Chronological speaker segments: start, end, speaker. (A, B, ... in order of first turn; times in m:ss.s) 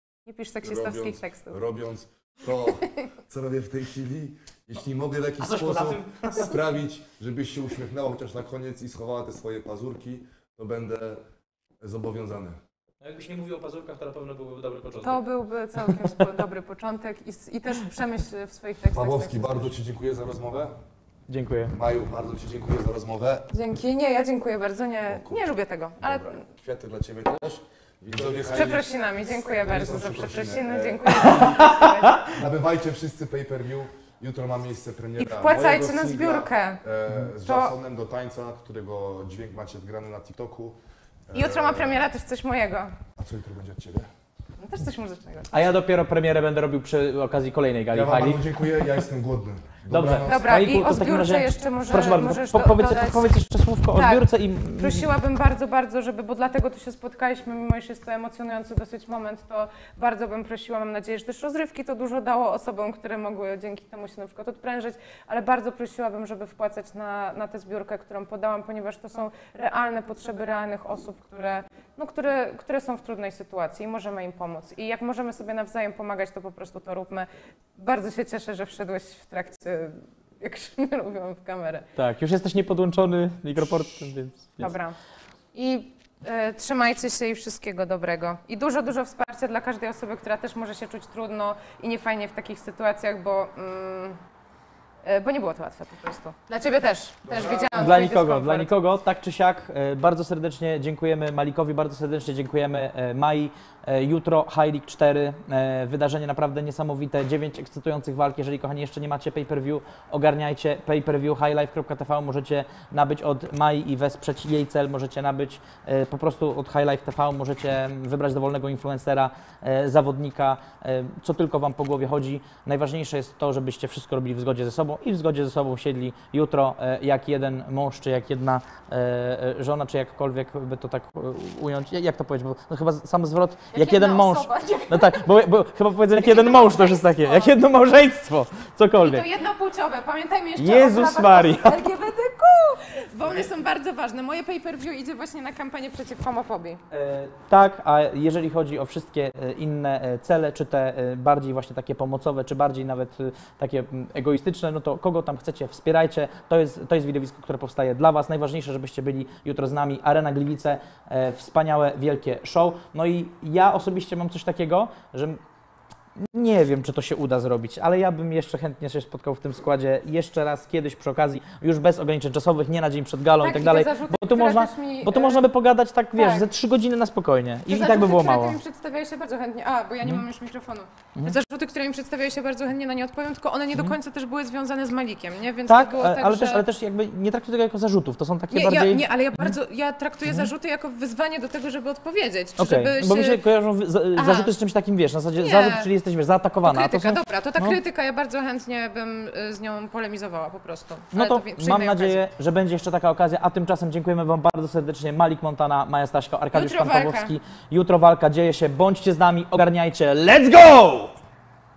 0:00.3-0:01.6 A
0:00.6-0:11.2 B
0:02.5-0:03.0 A
0:05.4-0:06.6 C
0:11.8-0:12.6 B
0:13.0-0:15.2 C
0:15.0-0:19.7 A
0:15.8-0:16.2 C
0:18.9-0:20.7 B
0:21.3-0:21.8 C
0:21.7-0:23.5 B
0:23.5-0:26.4 A
0:25.1-0:25.4 B
0:26.0-0:28.9 B
0:28.5-0:32.3 A
0:29.4-0:42.0 B
0:31.6-0:32.2 C
0:35.2-0:36.8 A
0:37.4-0:37.7 A
0:41.3-0:42.9 A
0:43.2-0:44.1 B
0:44.6-0:45.5 A
0:45.5-0:49.0 C
0:47.9-0:50.4 B
0:49.9-0:55.1 C
0:50.2-0:53.3 A
0:54.0-1:21.9 A
1:22.0-1:24.7 C
1:24.6-1:25.0 A
1:25.5-1:34.2 A
1:35.0-1:38.7 A
1:37.2-1:38.0 B
1:37.7-2:19.2 C
2:13.7-2:15.3 A
2:16.2-2:17.5 A
2:19.0-2:26.8 A
2:20.6-2:21.8 C
2:26.9-2:45.4 C
2:46.2-2:58.6 C
2:53.4-2:55.4 A
2:56.2-2:56.5 A
2:57.7-3:06.6 A
3:05.7-3:09.6 C
3:08.5-3:13.4 A
3:10.3-3:10.5 C
3:12.6-3:17.8 C
3:14.2-3:14.5 A
3:15.4-3:15.9 A
3:16.6-3:22.2 A
3:21.1-3:31.2 C
3:26.5-3:27.3 A